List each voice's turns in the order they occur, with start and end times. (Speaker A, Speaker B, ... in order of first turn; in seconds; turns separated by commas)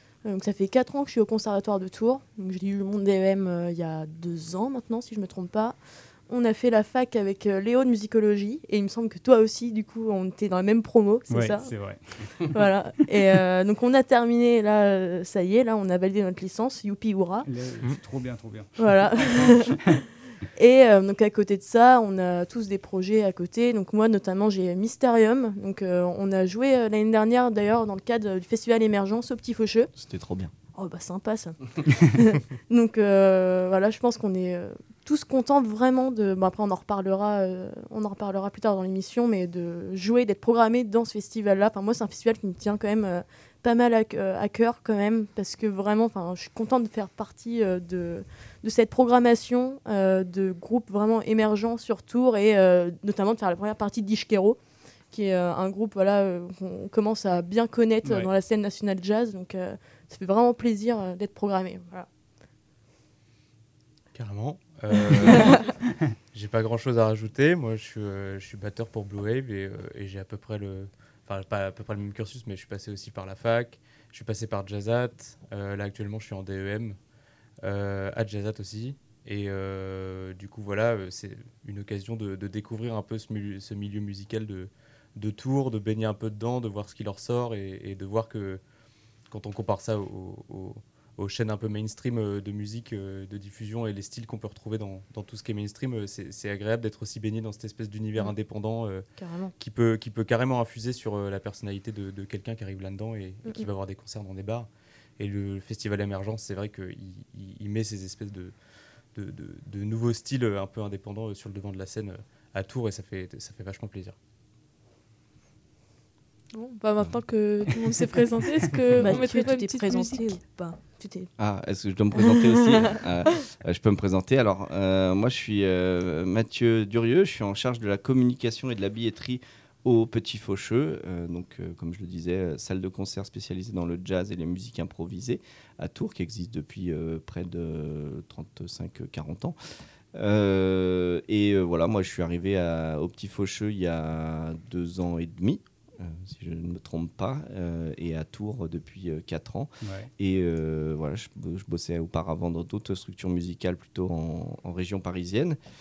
Speaker A: 0.2-5.8, Speaker A: 6.3-11.7, Speaker B: 11.3-12.4, Speaker A: 12.4-17.4, Speaker B: 17.4-20.0, Speaker A: 18.8-19.8, Speaker A: 20.5-29.9, Speaker C: 29.9-30.5, Speaker A: 30.7-54.6, Speaker A: 55.1-62.1, Speaker D: 64.1-77.0, Speaker D: 77.6-88.6, Speaker D: 89.3-99.0, Speaker A: 99.2-99.5, Speaker D: 99.6-108.5, Speaker D: 109.1-114.2, Speaker E: 116.5-120.4, Speaker A: 119.0-121.3, Speaker C: 121.4-139.6, Speaker A: 122.1-123.0, Speaker C: 140.1-155.6, Speaker B: 149.8-150.1